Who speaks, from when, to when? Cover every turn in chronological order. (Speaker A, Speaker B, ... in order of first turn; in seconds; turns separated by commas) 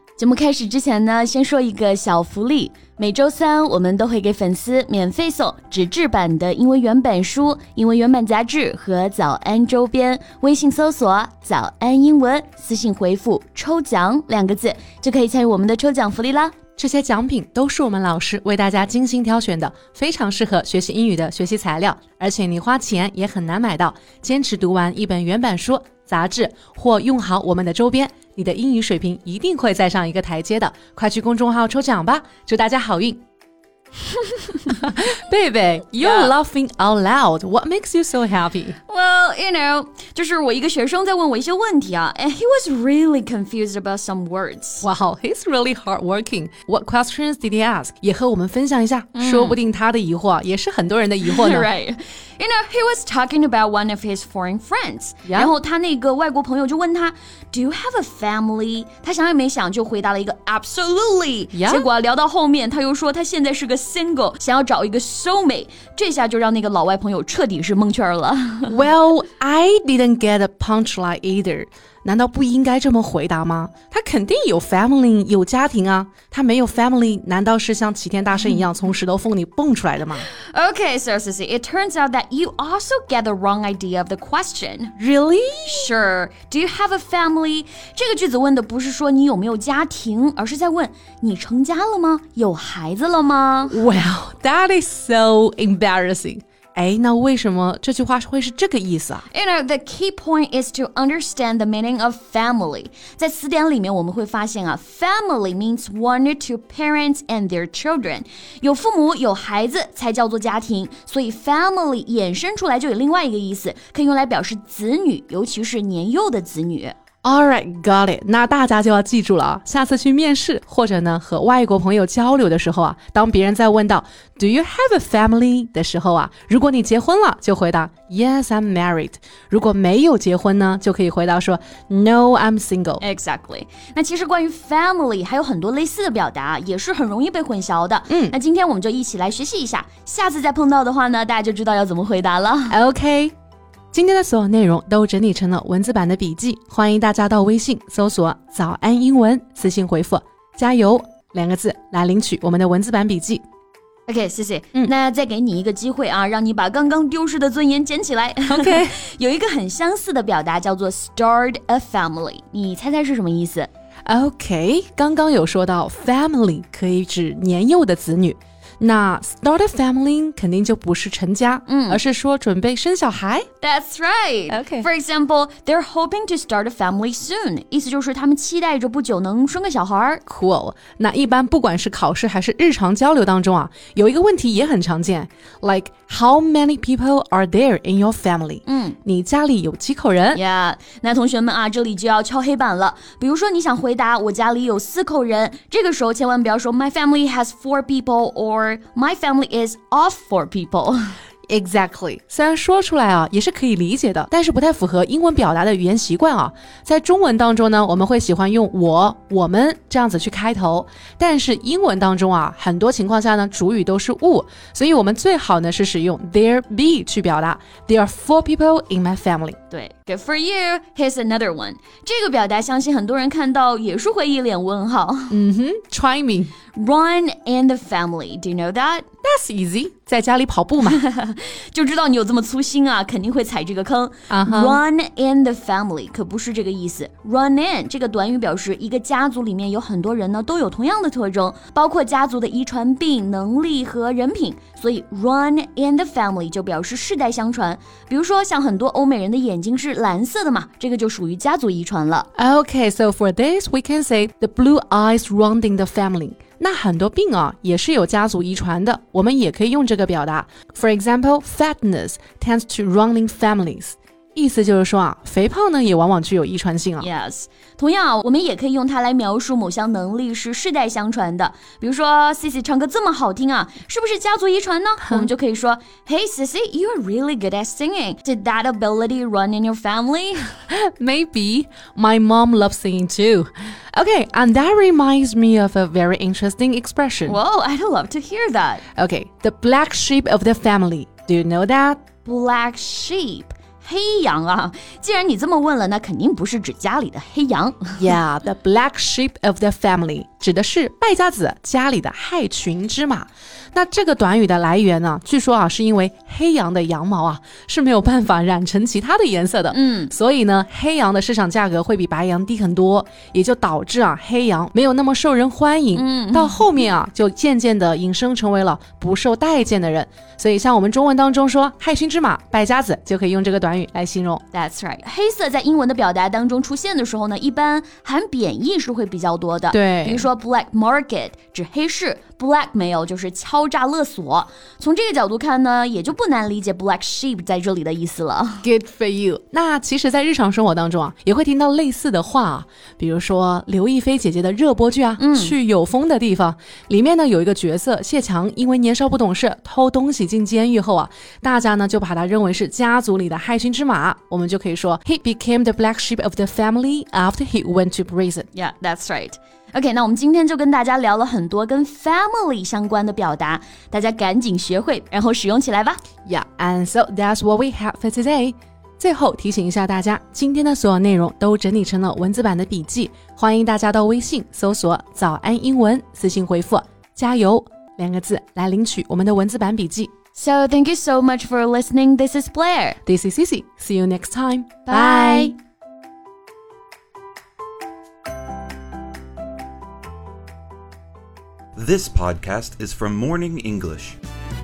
Speaker A: 0.2-16.6, Speaker B: 16.8-33.2, Speaker B: 34.7-38.8, Speaker A: 36.0-36.3, Speaker A: 38.9-44.9, Speaker B: 44.8-51.7, Speaker A: 49.1-49.6, Speaker A: 51.2-68.7, Speaker B: 55.2-55.5, Speaker B: 61.5-61.9, Speaker B: 68.7-80.3, Speaker A: 80.3-84.9, Speaker B: 85.0-85.9, Speaker A: 85.7-93.8, Speaker B: 93.7-99.3, Speaker A: 99.3-117.0, Speaker B: 117.2-133.0, Speaker A: 133.0-142.8, Speaker B: 138.1-138.4, Speaker B: 142.7-143.3, Speaker B: 143.9-153.4, Speaker A: 154.1-163.7, Speaker B: 158.5-159.0, Speaker B: 164.1-173.5, Speaker A: 171.7-172.0, Speaker A: 173.6-180.2, Speaker B: 174.5-174.9, Speaker B: 180.3-190.4, Speaker A: 188.7-189.0, Speaker A: 190.3-201.2, Speaker B: 201.5-219.6, Speaker A: 219.7-225.4, Speaker B: 225.3-226.5, Speaker A: 226.7-229.1, Speaker B: 229.2-231.0, Speaker A: 230.8-252.3, Speaker B: 234.3-234.8, Speaker B: 252.4-267.1, Speaker A: 267.0-280.5, Speaker B: 280.7-287.4, Speaker A: 287.3-288.8, Speaker B: 289.0-292.0, Speaker A: 292.2-298.1, Speaker B: 298.0-324.4, Speaker A: 309.7-310.1, Speaker A: 315.9-316.7, Speaker A: 324.5-338.7, Speaker B: 329.7-330.3, Speaker B: 338.6-358.5, Speaker A: 345.2-345.6, Speaker A: 358.5-366.0, Speaker B: 366.2-380.1, Speaker A: 380.3-383.0, Speaker B: 383.1-385.5, Speaker A: 384.9-385.6, Speaker C: 391.8-394.2